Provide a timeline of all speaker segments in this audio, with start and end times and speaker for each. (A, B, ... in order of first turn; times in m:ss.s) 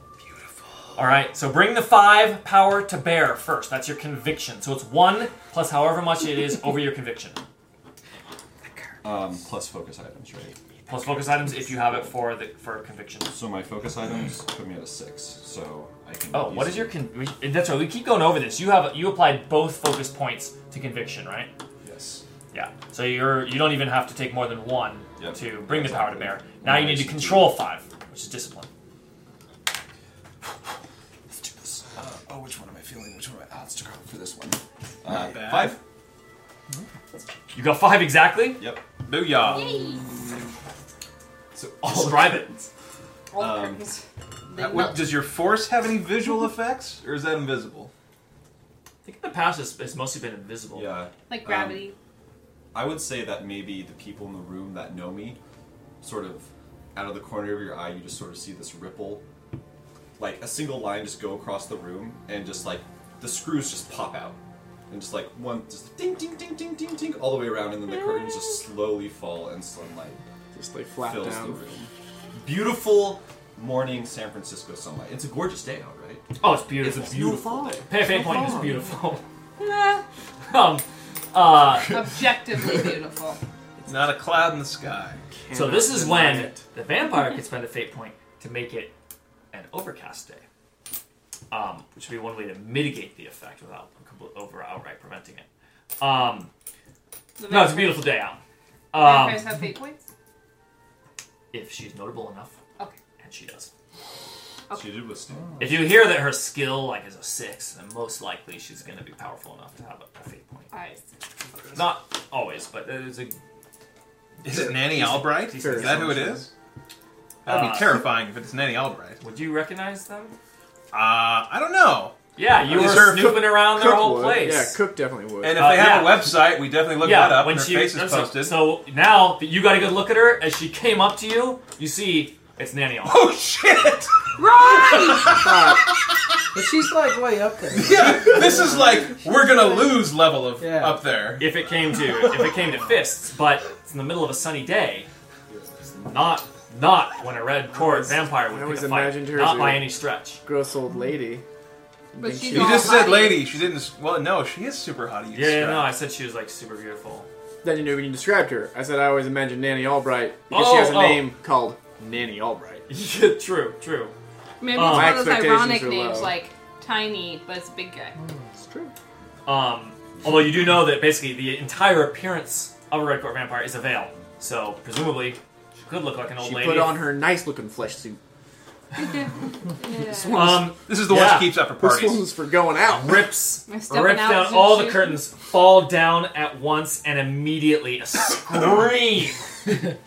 0:01.0-0:07.4 A
0:09.0-0:12.2 B
0:10.9-0:13.3 A
0:13.3-0:17.0 B
0:16.3-0:21.5 A
0:21.8-0:22.2 B
0:22.5-0:28.7 A
0:25.2-0:27.6 B
0:31.3-0:35.8 B
0:35.1-0:35.8 C
0:37.5-0:38.7 A
0:38.6-0:38.9 B
0:39.0-0:39.7 C
0:39.4-0:40.2 D
0:41.6-0:42.5 B
0:41.8-0:42.7 A
0:43.3-0:45.1 D
0:43.4-0:43.9 B
0:44.6-0:47.9 C
0:49.0-0:51.0 A
0:50.7-0:51.9 B
0:51.3-0:52.0 D
0:52.7-0:55.4 B
0:56.0-0:59.2 B
1:00.2-1:04.4 B
1:04.9-1:10.2 B
1:10.5-1:11.9 E
1:11.0-1:16.2 B
1:16.4-1:19.2 A
1:16.8-1:18.7 B
1:18.0-1:18.8 E
1:19.6-1:20.0 D
1:20.5-1:22.0 A
1:21.9-1:23.4 D
1:23.9-1:25.2 C
1:25.3-1:26.6 E
1:25.5-1:28.9 A
1:29.5-1:30.4 A
1:31.5-1:35.4 A
1:36.0-1:36.5 A
1:37.4-1:38.2 D
1:37.5-1:38.4 A
1:38.9-1:39.5 A
1:38.9-1:40.0 D
1:41.5-1:42.6 A
1:43.2-1:43.7 A
1:44.7-1:46.0 B
1:45.6-1:50.7 A
1:50.7-1:51.0 D
1:51.7-1:53.4 A
1:54.4-1:56.5 C
1:54.5-1:56.1 A
1:55.1-1:56.5 E
1:57.4-1:58.0 A
1:57.4-1:59.2 C
1:59.2-2:00.3 A
2:00.9-2:03.4 C
2:02.4-2:04.8 A
2:02.7-2:05.7 E
2:05.4-2:08.6 C
2:05.6-2:06.3 A
2:07.0-2:13.2 A
2:13.0-2:14.1 C
2:14.4-2:15.4 D
2:14.7-2:15.8 C
2:15.3-2:15.8 E
2:16.5-2:19.9 F
2:17.7-2:21.5 C
2:20.6-2:21.0 F
2:21.4-2:25.1 A
2:25.5-2:25.8 B
2:25.8-2:30.4 A
2:27.7-2:31.4 E
2:32.1-2:33.3 E
2:32.2-2:33.4 D
2:32.5-2:35.9 C
2:35.3-2:37.3 A
2:37.6-2:42.9 E
2:40.5-2:41.3 A
2:42.9-2:44.1 A
2:44.6-2:48.2 D
2:44.7-2:45.3 A
2:44.8-2:46.4 E
2:48.2-2:48.5 F
2:49.4-2:57.0 A
2:56.4-2:58.2 E
2:59.0-3:00.5 D
3:00.0-3:00.8 E
3:00.3-3:01.6 A
3:00.9-3:02.3 C
3:01.8-3:03.3 E
3:02.9-3:09.9 A
3:03.7-3:05.2 D